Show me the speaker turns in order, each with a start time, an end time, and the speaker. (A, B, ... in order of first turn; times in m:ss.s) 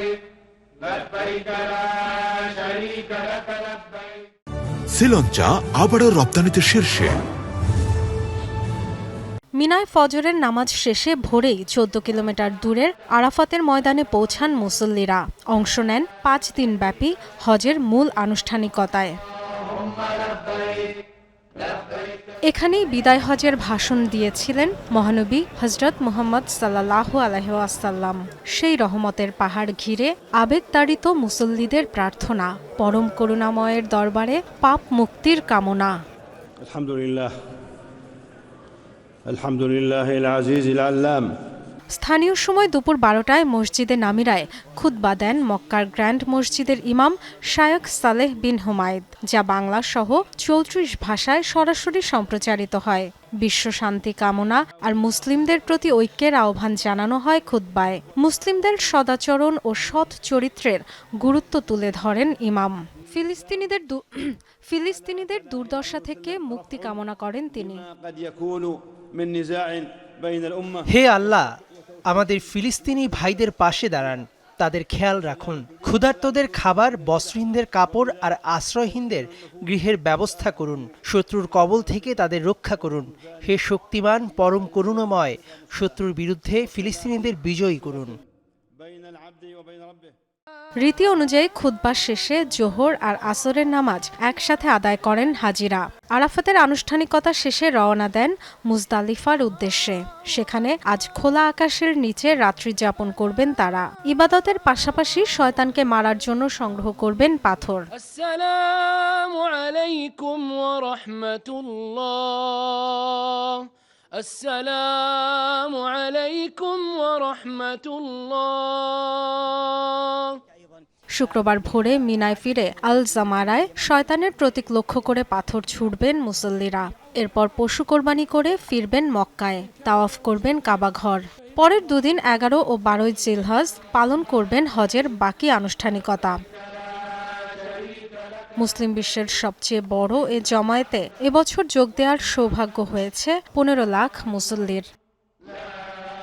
0:04.9-0:07.2 A
0:09.6-0:19.2 B
0:22.5-0:36.0 B
0:36.6-0:37.3 C
0:39.3-0:41.3 C
0:41.9-1:07.9 B
1:07.9-1:10.9 C
1:10.9-1:11.5 D
1:12.1-1:28.2 D
1:28.8-1:30.1 C
1:30.8-1:47.9 B
1:48.0-2:00.4 E
2:01.2-2:16.4 B
2:18.6-2:24.9 B